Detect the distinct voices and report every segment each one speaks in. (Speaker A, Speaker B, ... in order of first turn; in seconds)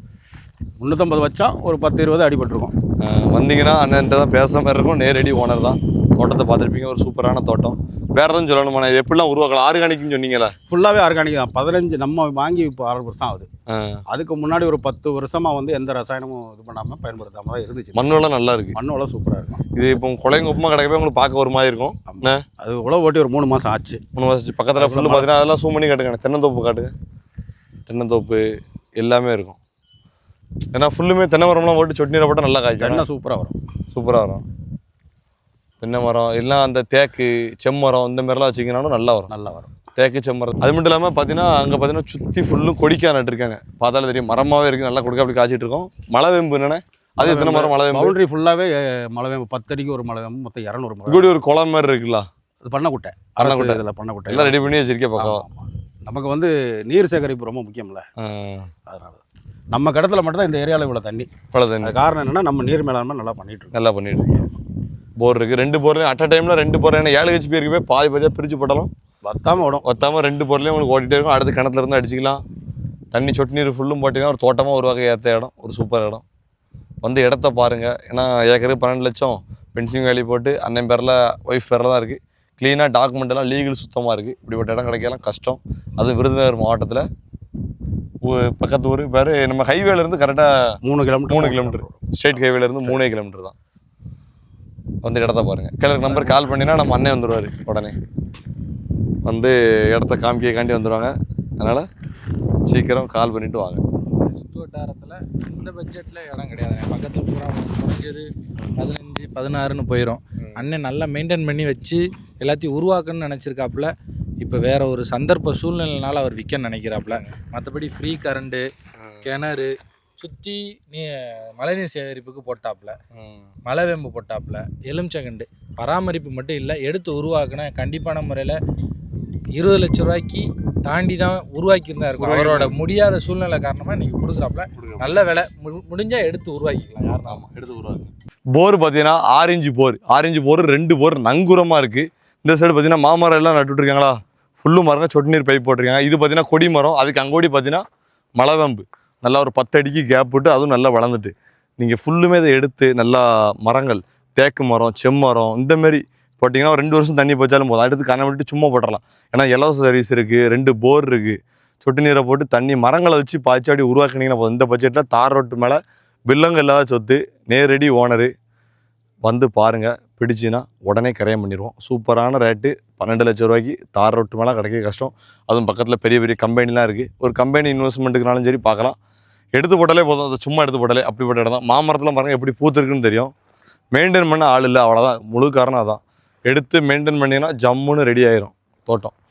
Speaker A: 0.8-2.7, 10.7-13.5, 14.1-18.1, 18.7-19.6, 22.1-24.0, 24.8-25.3, 32.8-33.5, 39.3-39.7, 47.2-51.3, 52.6-54.6, 55.2-58.0, 58.9-61.3, 61.8-63.7, 69.2-69.8, 90.8-92.1
Speaker B: 3.0-10.5, 13.7-14.0, 17.9-18.8, 19.7-22.4, 24.1-26.9, 27.9-28.4, 29.0-29.6, 30.7-33.0, 33.9-34.4, 35.8-39.3, 40.0-48.1, 51.1-52.3, 53.4-55.4, 58.2-58.7, 61.5-61.9, 63.7-64.4, 65.2-68.9, 69.8-72.4, 73.1-76.2, 77.0-87.0, 88.2-90.7, 91.3-93.5, 95.0-98.0, 99.2-101.9, 102.7-103.8, 119.0-119.3, 123.1-123.5, 132.2-132.7, 134.8-135.2, 137.2-147.8, 148.4-168.3, 169.2-178.9, 179.5-183.3, 183.9-189.1
Speaker C: 104.2-113.9, 114.4-118.7, 119.2-123.0, 123.6-128.6, 129.5-137.4